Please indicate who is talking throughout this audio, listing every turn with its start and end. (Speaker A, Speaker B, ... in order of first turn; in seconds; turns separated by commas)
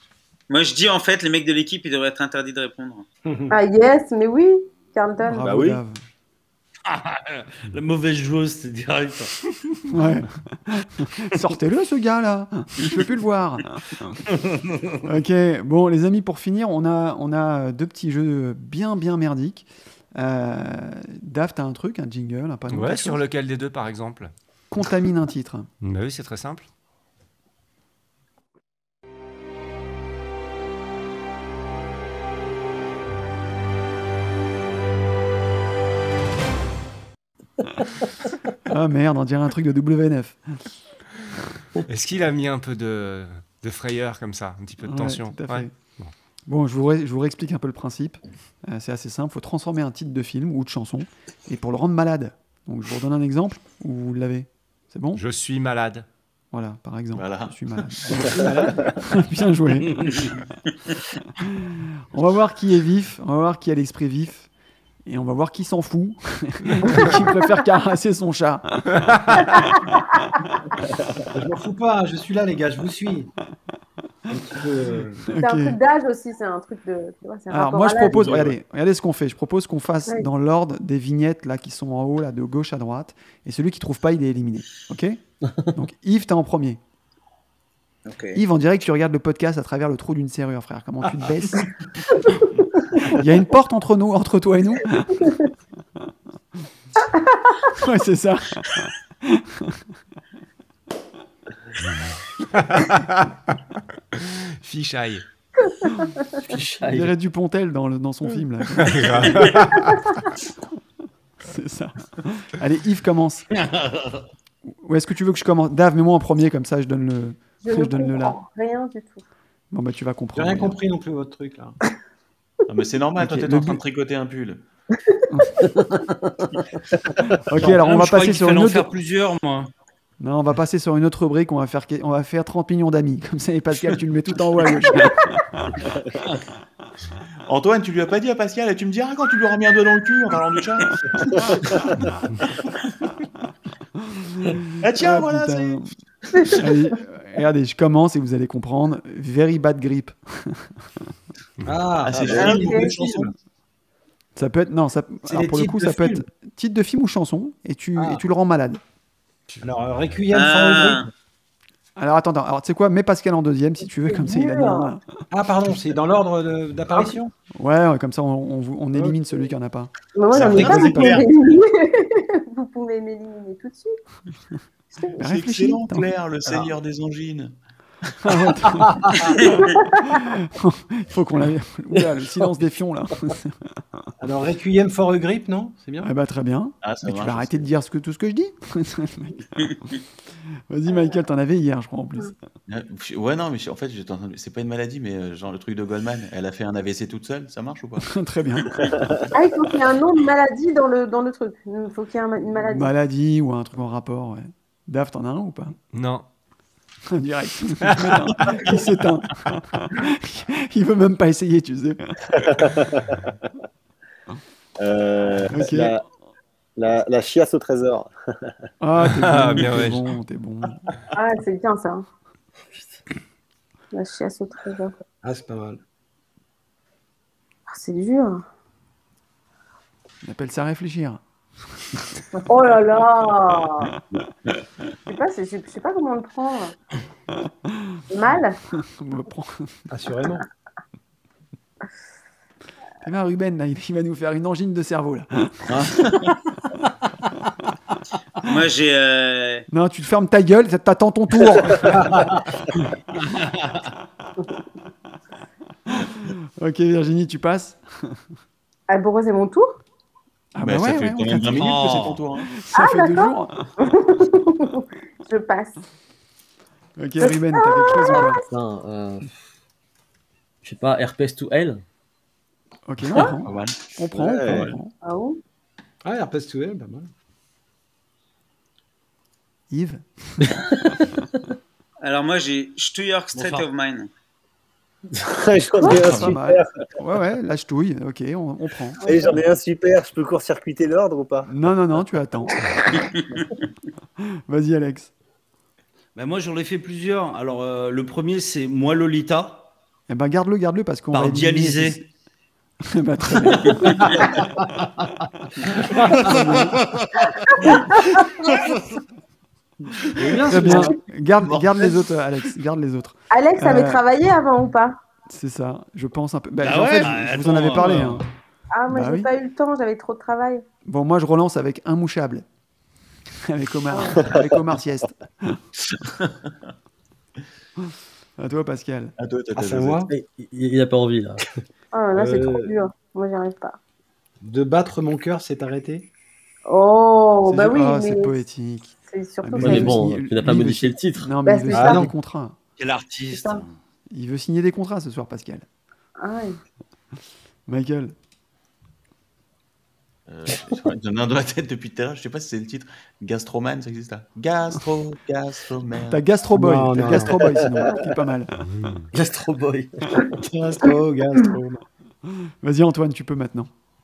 Speaker A: 0.5-3.1, Speaker B: 3.5-5.7, Speaker C: 5.2-6.0, Speaker D: 5.5-5.8, Speaker E: 6.9-9.4, Speaker C: 9.9-14.2, Speaker E: 14.4-14.9, Speaker C: 15.0-23.2, Speaker F: 22.7-24.3, Speaker C: 24.7-25.7, Speaker F: 25.8-26.7, Speaker C: 38.6-40.6, Speaker F: 41.9-46.1, Speaker C: 44.8-45.7, Speaker C: 46.5-55.2, Speaker F: 55.2-56.1, Speaker C: 56.5-60.3, Speaker G: 57.1-58.2, Speaker H: 58.2-58.9, Speaker C: 61.4-64.5, Speaker C: 65.1-69.4, Speaker H: 71.3-73.3, Speaker H: 74.3-75.3, Speaker C: 75.3-75.8, Speaker B: 75.3-78.5, Speaker C: 77.5-86.8, Speaker A: 88.1-88.4, Speaker C: 88.3-91.7, Speaker C: 93.0-95.3, Speaker B: 97.1-97.6, Speaker C: 97.8-99.8, Speaker F: 101.9-103.3, Speaker F: 104.2-105.2, Speaker I: 106.5-107.1, Speaker C: 106.9-109.6, Speaker F: 108.8-110.1, Speaker C: 111.4-113.5, Speaker E: 113.7-114.2, Speaker C: 114.8-118.4, Speaker B: 117.6-119.2, Speaker C: 119.7-120.8, Speaker H: 120.3-121.8, Speaker G: 122.7-124.6, Speaker C: 123.2-123.8, Speaker C: 125.3-125.6, Speaker C: 127.3-128.9, Speaker E: 127.6-129.7, Speaker C: 130.2-135.7, Speaker G: 137.5-141.8, Speaker C: 144.2-145.9, Speaker G: 144.8-145.8, Speaker C: 146.5-150.8, Speaker H: 151.7-153.3, Speaker G: 152.0-153.3, Speaker B: 152.4-152.9, Speaker C: 154.4-158.8, Speaker H: 155.3-156.2, Speaker H: 159.6-161.1, Speaker A: 160.3-161.1, Speaker C: 162.0-165.2, Speaker B: 164.1-164.9, Speaker H: 165.3-167.3, Speaker C: 167.6-169.9, Speaker B: 170.2-173.9, Speaker G: 170.3-171.3, Speaker C: 170.6-171.2, Speaker C: 175.2-176.1, Speaker G: 175.2-177.6, Speaker C: 178.2-184.1, Speaker B: 179.7-180.0, Speaker H: 184.2-186.1, Speaker C: 186.0-189.7, Speaker G: 186.8-187.7, Speaker C: 190.7-192.3, Speaker G: 192.7-198.1, Speaker C: 198.0-198.9, Speaker B: 199.3-202.9, Speaker C: 202.6-205.8, Speaker F: 205.9-206.2, Speaker C: 207.1-212.4, Speaker D: 212.4-213.1, Speaker D: 214.8-216.0, Speaker C: 215.5-216.0, Speaker D: 216.8-218.1, Speaker C: 218.8-220.8, Speaker F: 219.0-220.0, Speaker B: 221.1-222.1, Speaker B: 223.9-224.9, Speaker H: 225.2-225.8, Speaker B: 227.7-228.4, Speaker C: 230.2-231.2, Speaker B: 232.5-233.9, Speaker B: 235.1-236.7, Speaker B: 238.1-238.6, Speaker C: 238.8-239.8, Speaker H: 239.9-240.4, Speaker C: 243.0-245.9, Speaker G: 245.7-246.3, Speaker A: 248.4-249.7, Speaker C: 249.7-252.3, Speaker H: 252.1-252.3, Speaker E: 253.2-253.7, Speaker C: 255.9-258.2, Speaker B: 258.9-259.7, Speaker C: 260.6-261.7, Speaker G: 260.6-262.5, Speaker E: 261.5-262.2, Speaker C: 262.5-263.7, Speaker B: 262.8-265.8, Speaker C: 267.0-268.4, Speaker B: 267.2-268.4, Speaker I: 268.5-269.4, Speaker I: 270.6-271.8, Speaker C: 272.9-274.9, Speaker G: 273.4-273.9, Speaker D: 274.1-274.7, Speaker G: 274.5-274.8, Speaker B: 275.0-275.4, Speaker H: 276.0-277.1, Speaker C: 279.7-280.7, Speaker A: 282.0-284.1, Speaker E: 283.3-283.7, Speaker D: 285.2-286.7, Speaker C: 285.8-289.2, Speaker B: 289.0-289.4, Speaker D: 289.0-291.5, Speaker C: 291.5-292.8, Speaker A: 293.0-293.5, Speaker C: 294.2-295.1, Speaker E: 296.1-299.7, Speaker C: 300.1-302.1, Speaker E: 301.1-302.0, Speaker C: 302.8-304.3, Speaker H: 306.0-306.2, Speaker C: 306.1-306.8, Speaker E: 306.2-307.4, Speaker B: 307.5-308.5, Speaker H: 310.2-310.9, Speaker C: 310.5-314.0, Speaker G: 311.4-312.1, Speaker B: 313.3-315.0, Speaker C: 315.3-318.2, Speaker E: 316.6-318.2, Speaker B: 318.7-320.6, Speaker C: 318.9-319.3, Speaker C: 320.9-322.4, Speaker C: 323.4-325.6, Speaker G: 326.1-326.3, Speaker C: 328.4-329.1, Speaker G: 329.2-330.1, Speaker H: 329.6-330.1, Speaker I: 330.1-331.5, Speaker B: 331.9-333.8, Speaker H: 332.1-332.8, Speaker H: 334.4-336.1, Speaker B: 336.7-338.4, Speaker C: 337.4-342.6, Speaker B: 339.1-340.0, Speaker I: 339.6-341.3, Speaker B: 341.5-342.0, Speaker H: 341.7-342.1, Speaker E: 342.8-343.7, Speaker B: 343.3-343.6, Speaker C: 344.1-345.7, Speaker B: 346.2-346.6, Speaker C: 347.7-348.1, Speaker G: 350.3-356.2, Speaker C: 356.1-358.6, Speaker H: 356.5-357.6, Speaker D: 357.6-357.9, Speaker F: 358.8-359.1, Speaker I: 359.1-360.4, Speaker H: 360.4-361.8, Speaker C: 362.4-363.7